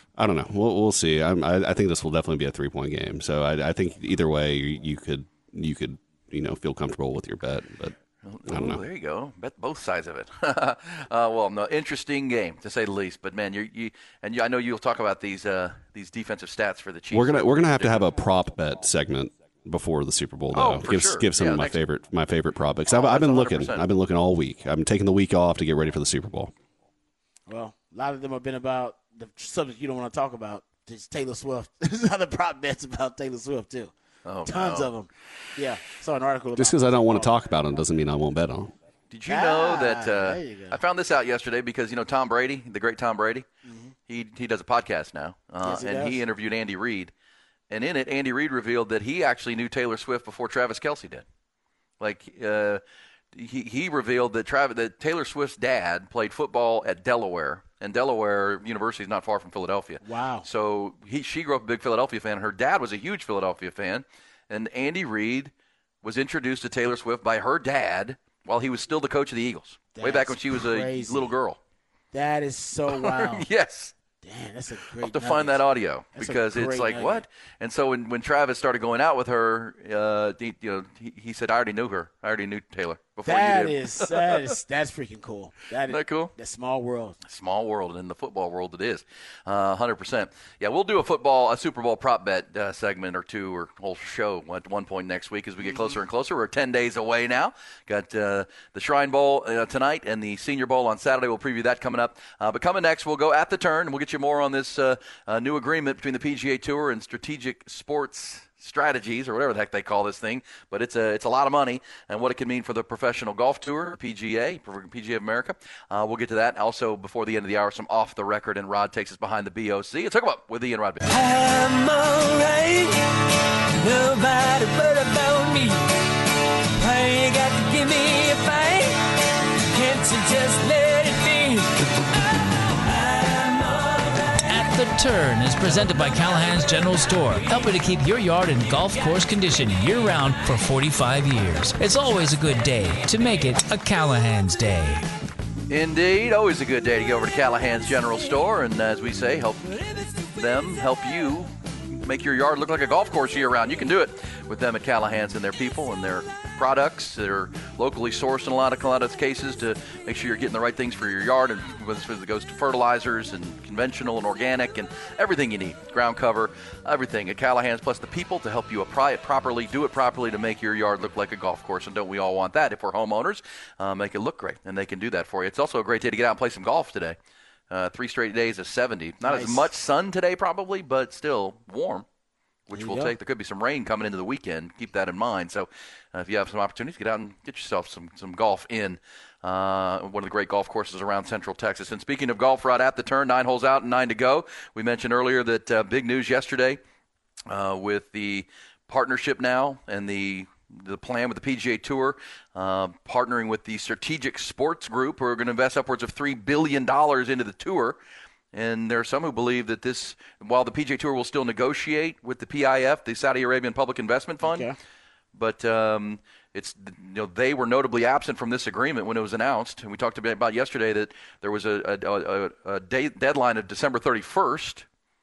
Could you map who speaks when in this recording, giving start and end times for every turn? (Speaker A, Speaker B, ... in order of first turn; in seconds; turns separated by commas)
Speaker A: 0.1-8.0, Speaker B: 8.2-18.0, Speaker A: 8.5-8.8, Speaker A: 17.1-26.5, Speaker B: 20.5-21.8, Speaker B: 22.9-23.8, Speaker C: 27.5-33.9, Speaker B: 34.2-34.9, Speaker C: 34.5-37.3, Speaker A: 36.6-38.7, Speaker B: 39.1-43.5, Speaker C: 39.3-40.8, Speaker C: 43.6-44.0, Speaker B: 44.1-47.1, Speaker C: 45.6-46.2, Speaker B: 47.7-51.2, Speaker B: 52.0-71.6, Speaker C: 60.0-60.5, Speaker C: 69.9-71.3, Speaker C: 72.1-73.5, Speaker B: 72.9-73.9, Speaker C: 74.2-75.6, Speaker B: 75.0-84.6, Speaker C: 76.2-77.2, Speaker C: 83.2-87.2, Speaker B: 85.9-86.3, Speaker B: 87.2-121.1, Speaker D: 121.1-123.1, Speaker D: 123.8-125.9, Speaker D: 126.8-129.1, Speaker D: 129.7-131.8, Speaker D: 132.7-134.3, Speaker E: 134.5-145.0, Speaker B: 145.7-177.2, Speaker B: 177.7-182.1, Speaker C: 179.3-179.7, Speaker C: 182.7-183.2, Speaker B: 182.7-196.8, Speaker B: 197.5-208.0, Speaker B: 208.5-214.7, Speaker C: 214.4-214.8, Speaker B: 215.3-224.9